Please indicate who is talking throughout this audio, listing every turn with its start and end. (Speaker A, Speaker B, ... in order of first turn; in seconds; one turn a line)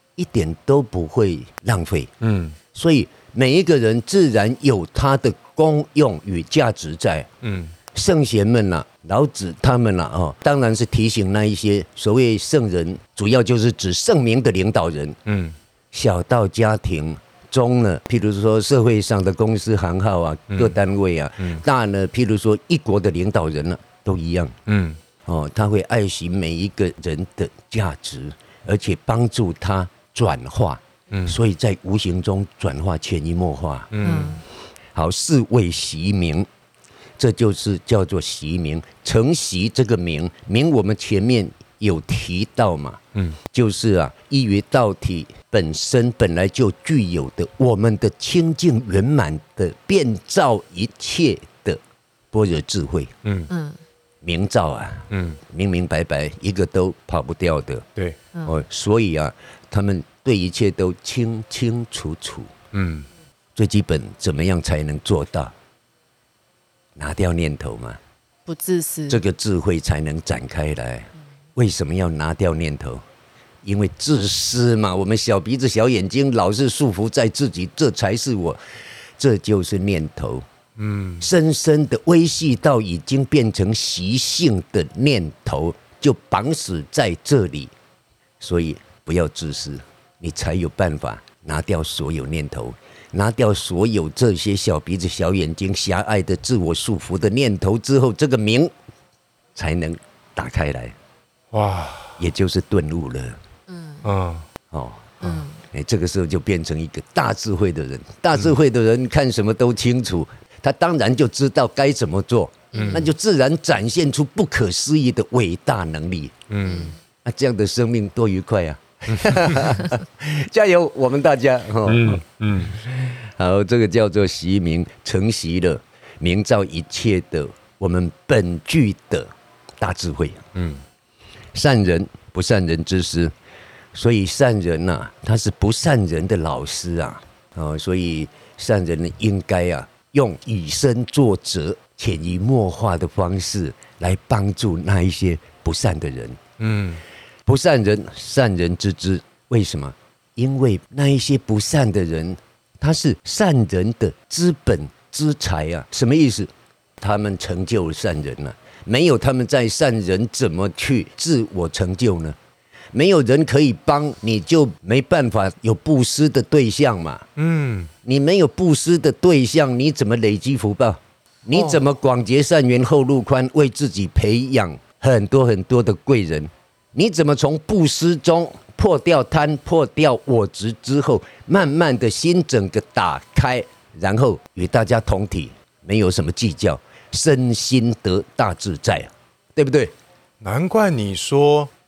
Speaker A: 0.2-2.1
Speaker B: 2.2-2.6
Speaker A: 2.7-7.3
Speaker B: 7.4-7.7
Speaker A: 7.9-15.2
Speaker B: 15.3-15.6
Speaker A: 15.9-24.6
Speaker B: 20.5-20.8
Speaker B: 24.7-25.0
Speaker A: 25.2-33.9
Speaker B: 31.1-31.4
Speaker B: 33.9-34.4
Speaker C: 34.0-34.4
Speaker A: 34.9-36.5
Speaker A: 37.2-51.8
Speaker A: 52.3-53.1
Speaker B: 53.2-53.5
Speaker C: 53.5-53.8
Speaker A: 54.2-57.9
Speaker B: 55.1-55.4
Speaker C: 58.3-58.6
Speaker A: 58.5-62.5
Speaker B: 62.7-63.1
Speaker A: 63.6-65.5
Speaker A: 67.0-68.0
Speaker C: 68.5-69.2
Speaker A: 69.1-73.0
Speaker A: 73.6-78.6
Speaker A: 79.2-80.5
Speaker B: 80.8-81.3
Speaker A: 81.2-87.7
Speaker A: 88.4-98.7
Speaker A: 99.5-101.0
Speaker B: 101.5-102.2
Speaker A: 102.2-103.4
Speaker C: 103.7-104.1
Speaker B: 104.0-104.5
Speaker A: 104.7-116.4
Speaker C: 105.2-105.6
Speaker C: 112.7-113.1
Speaker B: 112.7-113.1
Speaker B: 116.5-116.9
Speaker C: 116.6-117.0
Speaker A: 117.2-130.5
Speaker B: 119.1-119.5
Speaker B: 121.8-122.8
Speaker B: 130.6-130.8
Speaker A: 131.5-133.3
Speaker A: 133.9-146.4
Speaker B: 146.6-147.0
Speaker A: 147.5-162.4
Speaker A: 162.9-167.3
Speaker B: 167.4-167.9
Speaker A: 168.0-189.9
Speaker B: 190.4-191.7